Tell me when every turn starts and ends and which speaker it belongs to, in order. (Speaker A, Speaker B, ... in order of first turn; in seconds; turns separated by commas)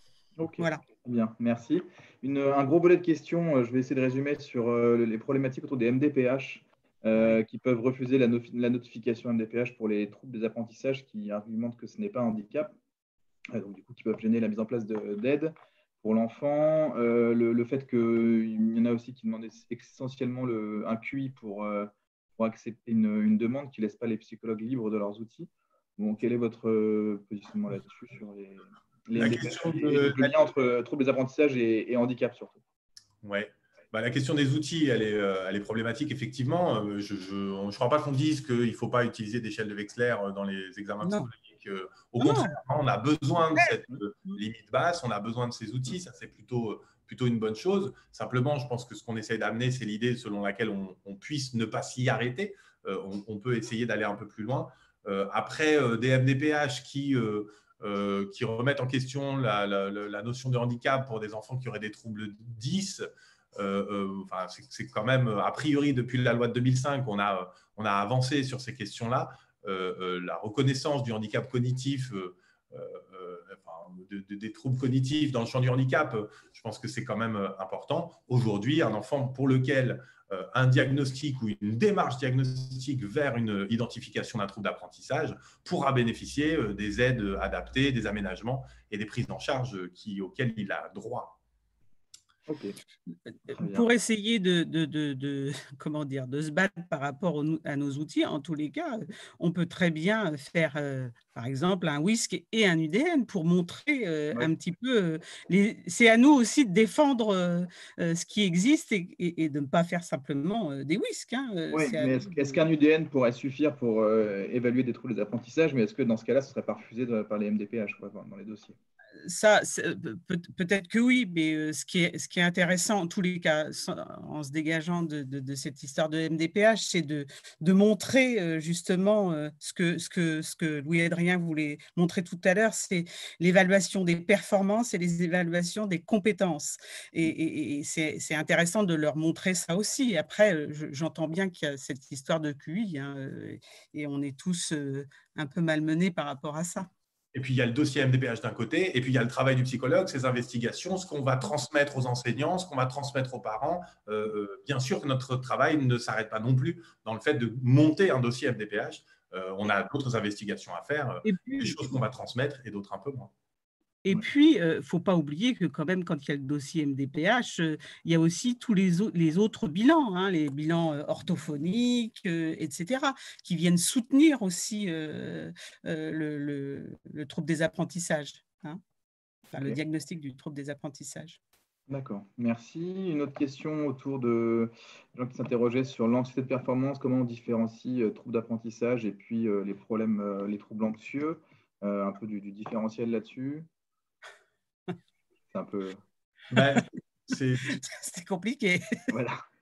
Speaker A: 0.4-12.8, Speaker A: 13.5-32.6, Speaker B: 29.2-30.5, Speaker B: 33.2-91.4, Speaker C: 41.0-41.3, Speaker C: 42.2-42.6, Speaker A: 92.5-92.8, Speaker A: 93.5-93.9, Speaker C: 93.5-112.6, Speaker A: 111.7-118.8, Speaker C: 119.2-146.9, Speaker B: 147.3-163.3, Speaker C: 161.2-161.9, Speaker C: 164.1-178.8, Speaker C: 179.5-181.4, Speaker A: 181.9-193.7, Speaker A: 195.5-196.0, Speaker B: 196.5-197.8, Speaker C: 197.7-199.1, Speaker A: 199.1-199.4